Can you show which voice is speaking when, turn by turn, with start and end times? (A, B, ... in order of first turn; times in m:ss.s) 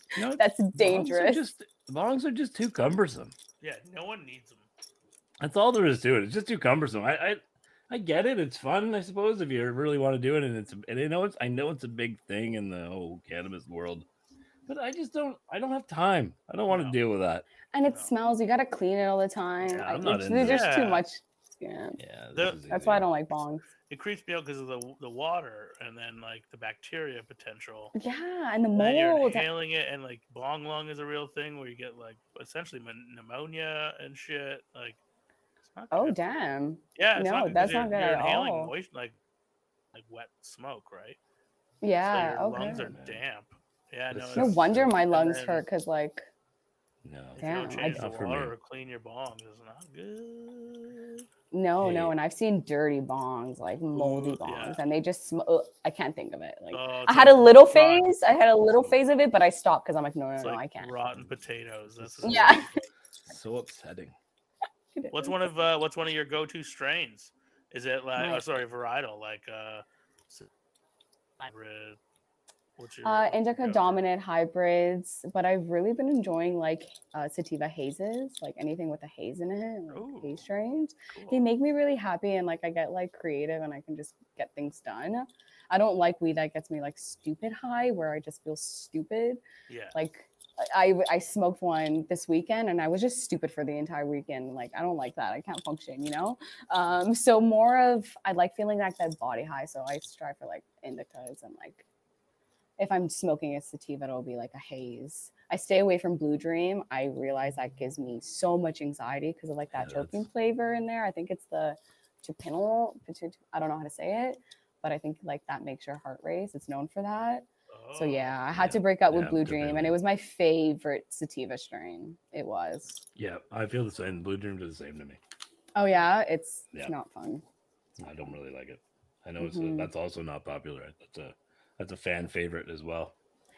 0:00.2-0:03.3 A
0:00.4-0:01.4 B
0:03.6-0:04.7 C
0:05.4-0:14.0 A
0:14.7-0:17.4 A
0:16.7-0:17.0 C
0:17.7-0:22.0 B
0:19.7-0:20.7 A
0:20.4-0:21.0 C
0:22.0-0:23.1 A
0:22.3-0:22.6 C
0:22.7-0:23.6 B
0:23.9-0:27.9 C
0:28.0-0:29.5 B
0:28.7-0:35.0 C
0:35.6-0:36.2 C
0:35.9-0:38.7 B
0:37.0-0:39.2 C
0:37.6-0:38.0 A
0:39.9-0:41.2 C
0:41.8-0:42.9 B
0:42.1-0:45.6 C
0:42.6-0:43.2 A
0:44.1-0:45.0 A
0:44.4-0:46.2 B
0:47.0-0:48.5 A
0:47.4-0:51.3 C
0:47.4-0:48.0 B
0:51.5-1:00.9 B
0:51.8-0:52.1 A
0:54.0-0:54.8 C
0:56.7-0:58.1 C
1:00.4-1:02.9 C
1:01.1-1:02.6 A
1:02.2-1:02.6 B
1:03.3-1:04.1 A
1:05.0-1:05.5 B
1:05.1-1:10.5 C
1:08.2-1:08.4 B
1:11.4-1:12.0 C
1:12.8-1:14.0 C
1:13.0-1:29.4 B
1:19.9-1:20.4 C
1:21.1-1:21.4 C
1:29.7-1:30.0 C
1:30.0-1:41.8 B
1:42.8-2:03.0 B
1:49.7-1:50.2 A
1:57.7-1:58.7 C
1:58.6-2:00.0 A
2:03.2-2:05.2 A
2:05.7-2:07.4 B
2:08.0-2:13.1 A
2:09.4-2:09.9 B